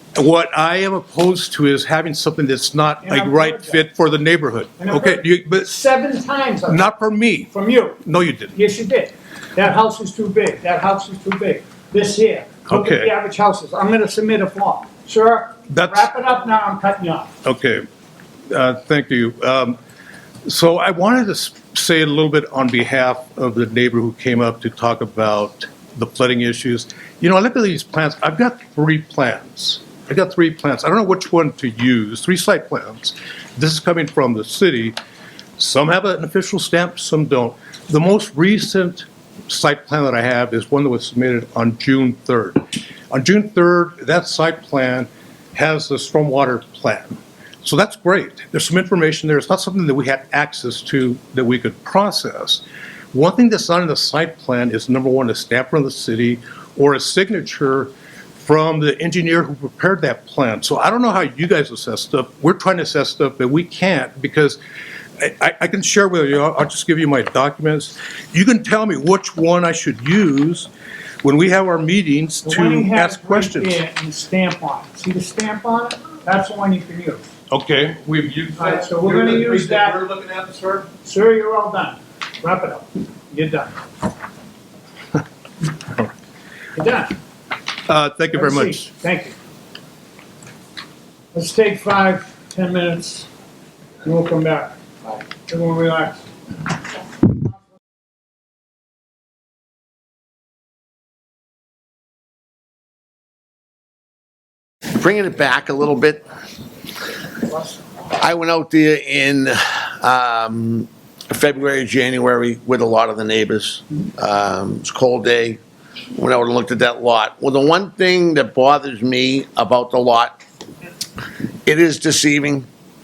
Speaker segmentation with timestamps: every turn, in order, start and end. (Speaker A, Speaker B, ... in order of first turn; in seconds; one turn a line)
Speaker A: 0.1-5.7
Speaker B: 3.0-3.8
Speaker B: 4.8-6.9
Speaker A: 6.7-8.6
Speaker B: 7.5-8.0
Speaker B: 8.5-17.3
Speaker A: 12.7-13.1
Speaker A: 15.7-16.1
Speaker A: 17.4-17.8
Speaker A: 18.5-19.8
Speaker A: 20.4-35.0
Speaker A: 35.6-64.6
Speaker A: 65.2-70.7
Speaker A: 71.2-73.8
Speaker B: 72.4-77.2
Speaker A: 77.5-80.9
Speaker B: 78.6-80.0
Speaker B: 81.0-83.8
Speaker B: 86.8-87.2
Speaker A: 87.8-88.9
Speaker B: 88.3-89.3
Speaker B: 91.3-93.3
Speaker B: 94.0-96.2
Speaker C: 104.9-106.3
Speaker B: 107.5-107.8
Speaker C: 108.1-115.6
Speaker C: 116.1-120.4
Speaker C: 121.7-122.7